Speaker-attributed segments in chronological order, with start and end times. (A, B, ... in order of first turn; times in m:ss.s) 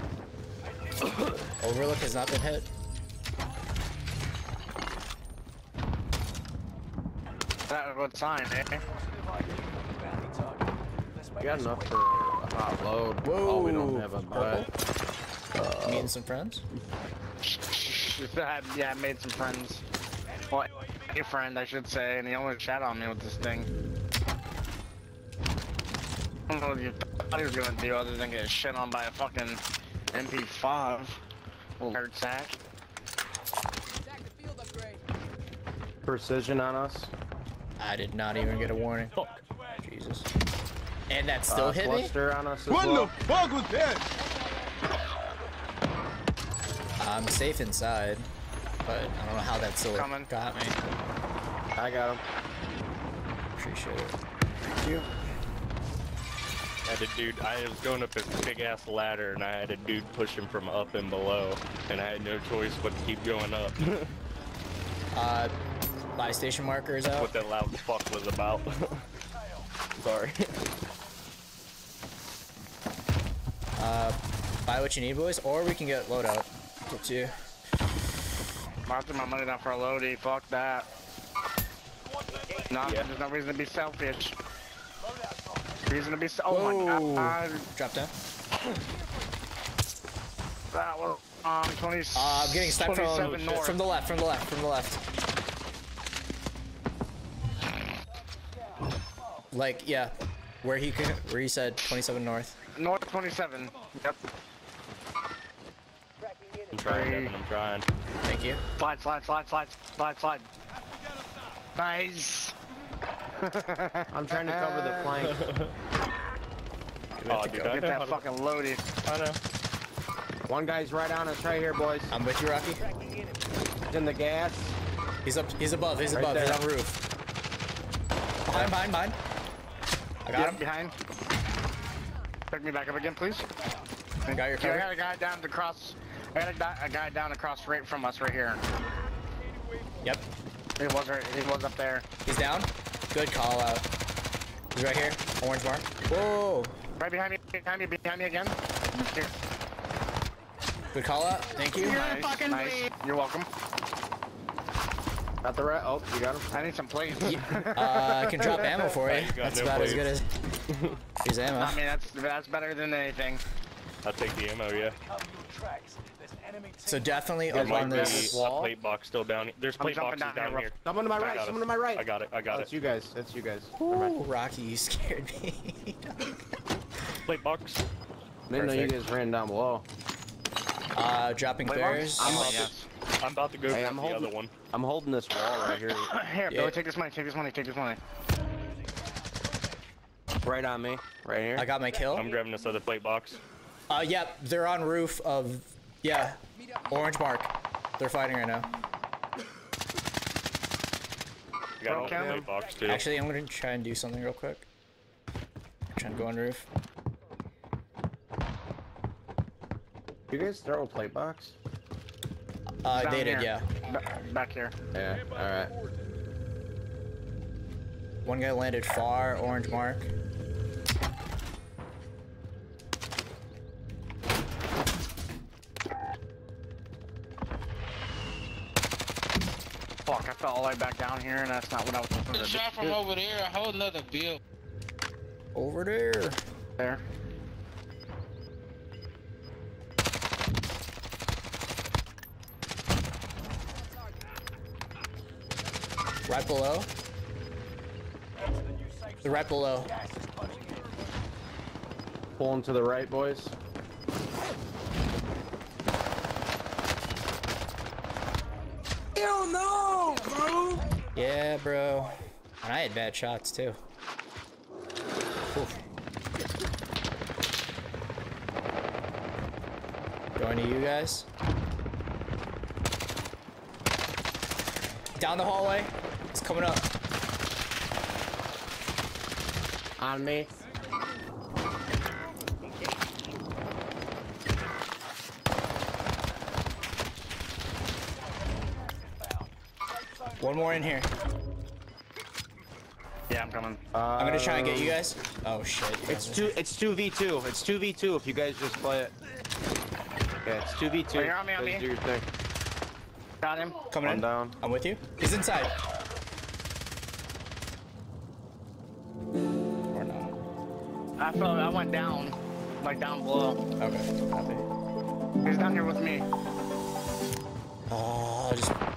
0:01.6-0:02.7 A
0:07.7-0:08.9 B
0:11.4-0:14.7 C
0:13.2-0:14.7 A
0:15.5-0:16.1 C
0:15.8-0:16.6 A
0:17.4-0:19.8 B
0:20.5-0:23.7 B
0:26.5-0:29.6 B
0:30.1-0:31.2 B
0:31.8-0:32.6 B
0:36.0-0:37.1 C
0:37.8-0:39.2 A
0:39.1-0:39.4 D
0:39.8-0:40.3 A
0:41.1-0:42.1 A
0:41.5-0:43.9 C
0:47.0-0:48.3 A
0:48.8-0:50.8 A
0:49.9-0:50.3 B
0:51.7-0:52.2 C
0:53.6-0:54.2 A
0:56.8-1:04.1 D
1:05.1-1:05.5 A
1:06.2-1:07.3 A
1:07.1-1:09.0 D
1:10.0-1:10.5 D
1:13.8-1:17.4 A
1:18.8-1:20.9 B
1:22.7-1:24.4 B
1:22.8-1:23.1 D
1:25.8-1:27.6 B
1:26.5-1:28.1 A
1:30.7-1:33.8 B
1:32.1-1:35.0 A
1:33.1-1:33.7 D
1:39.5-1:42.6 A
1:42.7-1:44.3 B
1:46.7-1:47.8 D
1:46.8-1:47.3 B
1:48.2-1:48.6 A
1:48.8-1:50.5 B
1:51.8-1:52.5 B
1:53.4-1:55.1 B
1:54.1-1:55.4 C
1:55.2-1:55.7 D
1:57.2-1:57.8 A
1:57.3-1:58.2 D
1:57.6-1:58.8 B
1:59.0-1:59.4 D
2:00.5-2:02.1 C
2:02.1-2:02.8 A
2:03.9-2:04.7 C
2:05.2-2:07.0 A
2:06.1-2:06.6 C
2:08.5-2:09.2 A
2:10.2-2:10.6 A
2:10.3-2:10.9 B
2:12.5-2:13.4 B
2:14.2-2:14.9 A
2:14.6-2:18.6 B
2:20.0-2:20.3 A
2:20.8-2:22.0 B
2:22.2-2:23.8 A
2:24.7-2:26.8 A
2:27.0-2:29.3 B
2:30.9-2:32.0 A
2:31.8-2:33.5 B
2:32.0-2:32.4 C
2:35.4-2:36.7 C
2:36.5-2:38.9 B
2:37.2-2:40.2 A
2:39.0-2:40.1 D
2:40.7-2:41.0 D
2:41.2-2:41.8 A
2:41.5-2:43.4 B
2:44.0-2:45.0 D
2:46.8-2:48.4 A
2:47.5-2:48.7 C
2:47.5-2:52.7 D
2:49.8-2:51.4 B
2:50.8-2:54.2 C
2:53.8-2:56.4 A
2:57.2-2:57.8 D
2:58.5-2:59.8 C
2:58.5-2:59.0 A
3:00.9-3:02.7 A
3:01.6-3:02.7 C
3:02.2-3:02.9 B
3:03.2-3:04.5 D
3:03.7-3:06.1 C
3:06.0-3:08.0 B
3:06.5-3:06.8 A
3:10.4-3:11.7 C
3:11.6-3:12.3 A
3:12.1-3:13.4 D
3:13.9-3:18.7 A
3:21.8-3:23.0 D
3:21.8-3:22.4 B
3:21.9-3:22.5 C
3:22.8-3:24.6 A
3:25.9-3:26.7 A
3:30.3-3:31.6 C
3:32.8-3:33.7 A
3:32.9-3:34.7 B
3:34.9-3:35.7 C
3:38.2-3:40.1 A
3:50.0-3:53.0 B
3:52.4-3:54.4 E
3:55.5-3:56.4 A
4:06.2-4:06.9 A
4:09.2-4:10.0 A
4:12.4-4:13.5 C
4:19.2-4:20.8 C
4:21.1-4:23.8 A
4:25.5-4:25.8 A
4:30.4-4:31.3 A
4:35.2-4:36.9 A
4:40.0-4:40.5 C
4:50.4-4:51.1 A
4:53.3-4:53.8 B
4:53.9-4:55.0 C
4:54.2-4:56.6 A
4:56.0-4:59.1 C
5:00.4-5:02.2 C
5:01.1-5:01.9 B
5:03.4-5:03.8 B
5:03.9-5:05.8 A
5:04.0-5:04.6 C
5:09.9-5:10.3 A
5:11.2-5:13.6 B
5:13.8-5:14.6 A
5:15.4-5:16.2 B
5:17.9-5:18.8 A